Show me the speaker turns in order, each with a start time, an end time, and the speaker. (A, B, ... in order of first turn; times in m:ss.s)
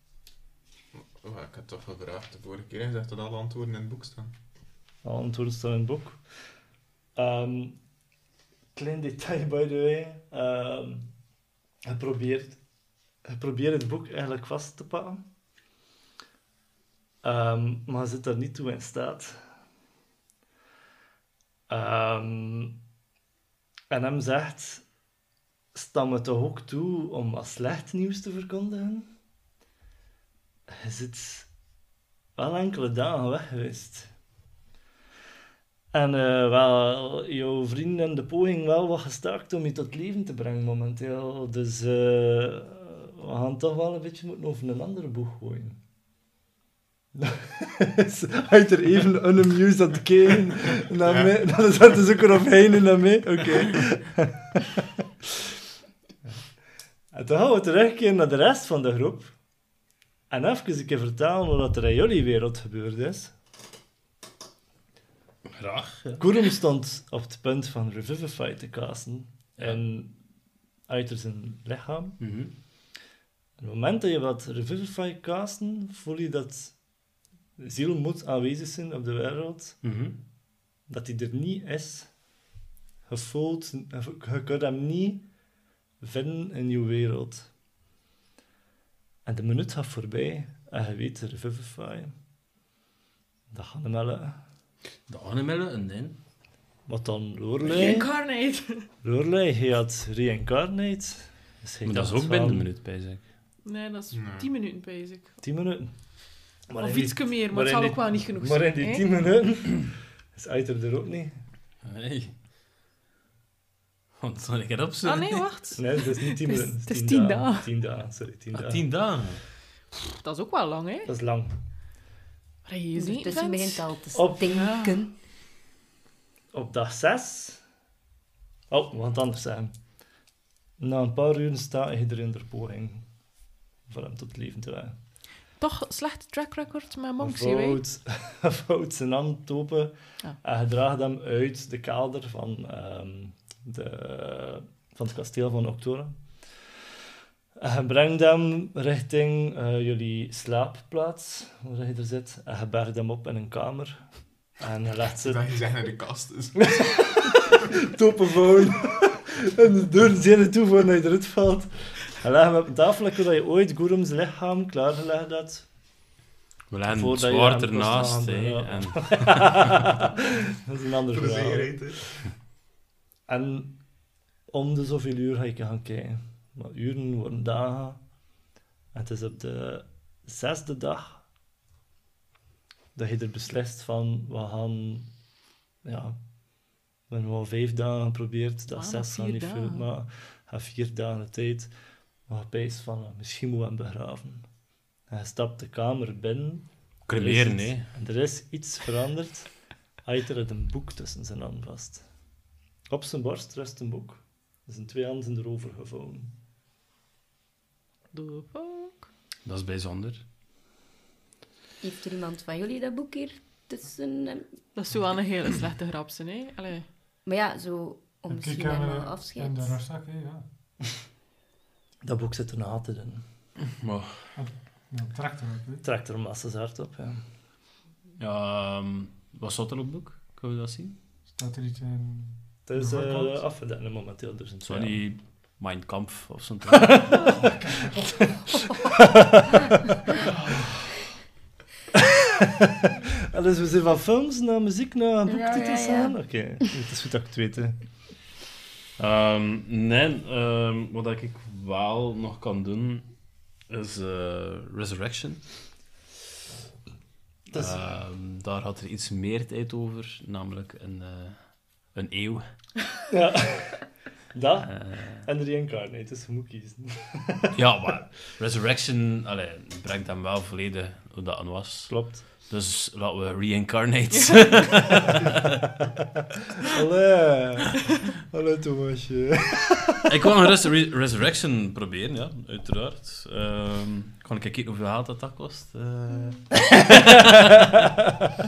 0:00.9-0:04.3 A
0:05.0-0:06.2 B
0:07.1-0:07.8 B
0:08.7-0:11.1 B
0:11.8-0:12.6 B
0:13.2-0:15.2 B
0:17.2-0:19.4 B
0:21.7-0:22.8 B
0:23.9-0:24.8 B
0:25.7-0:29.1 B
0:30.7-0:31.5 B
0:32.4-0:34.1 B
0:35.9-0:45.8 B
0:47.1-0:54.6 B
0:51.0-0:51.3 A
0:57.1-0:59.3 B
1:00.3-1:03.3 B
1:05.5-1:06.2 C
1:06.2-1:10.1 B
1:10.9-1:12.2 B
1:12.2-1:12.5 C
1:13.6-1:16.8 B
1:17.6-1:19.8 B
1:19.8-1:20.2 C
1:20.9-1:22.1 B
1:23.1-1:25.3 B
1:26.0-1:27.5 B
1:29.2-1:32.1 B
1:33.5-1:34.4 B
1:35.1-1:36.2 C
1:36.9-1:38.2 B
1:37.6-1:38.8 D
1:39.0-1:42.7 B
1:41.8-1:43.2 C
1:43.6-1:45.4 D
1:44.1-1:44.5 A
1:45.4-1:45.9 B
1:46.7-1:51.4 B
1:46.8-1:49.1 D
1:51.8-1:52.3 C
1:54.2-1:55.5 C
1:55.0-1:57.7 D
1:55.8-1:58.8 B
1:58.5-1:59.4 C
2:00.2-2:01.1 D
2:01.0-2:01.5 B
2:02.6-2:03.9 D
2:02.9-2:05.1 E
2:04.5-2:05.0 D
2:06.5-2:07.6 B
2:08.7-2:09.7 B
2:10.8-2:13.1 B
2:13.9-2:15.0 B
2:15.5-2:17.8 D
2:17.2-2:26.2 B
2:27.6-2:34.0 B
2:34.6-2:35.4 B
2:35.2-2:37.2 A
2:36.7-2:45.6 B
2:46.7-2:49.8 C
2:47.0-2:51.8 B
2:51.1-2:52.3 A
2:53.3-2:53.8 B
2:54.5-2:58.1 B
2:58.9-3:01.2 B
3:02.9-3:05.1 B
3:05.8-3:06.2 B
3:07.1-3:11.7 B
3:08.7-3:09.9 D
3:12.3-3:14.5 B
3:15.1-3:19.5 B
3:17.1-3:17.9 C
3:20.0-3:22.0 B
3:22.9-3:26.3 B
3:28.1-3:29.0 D
3:29.4-3:30.2 C
3:31.8-3:34.6 E
3:34.7-3:36.9 D
3:37.2-3:39.8 E
3:38.3-3:40.4 F
3:42.0-3:43.2 B
3:43.8-3:44.2 C
3:44.3-3:45.8 F
3:45.8-3:47.2 B
3:48.2-3:51.0 C
3:51.3-3:53.4 F
3:52.6-3:55.0 B
3:54.6-3:57.4 C
3:57.4-3:58.1 F
3:58.2-3:59.6 B
4:02.0-4:07.8 B
4:05.3-4:06.2 E
4:09.0-4:13.1 C
4:13.7-4:15.4 C
4:17.5-4:17.8 B
4:17.5-4:22.5 C
4:23.1-4:23.8 B
4:24.3-4:27.5 B
4:24.7-4:25.2 C
4:27.5-4:35.4 C
4:31.9-4:32.2 B
4:34.1-4:34.9 D
4:36.6-4:40.1 B
4:40.1-4:47.8 C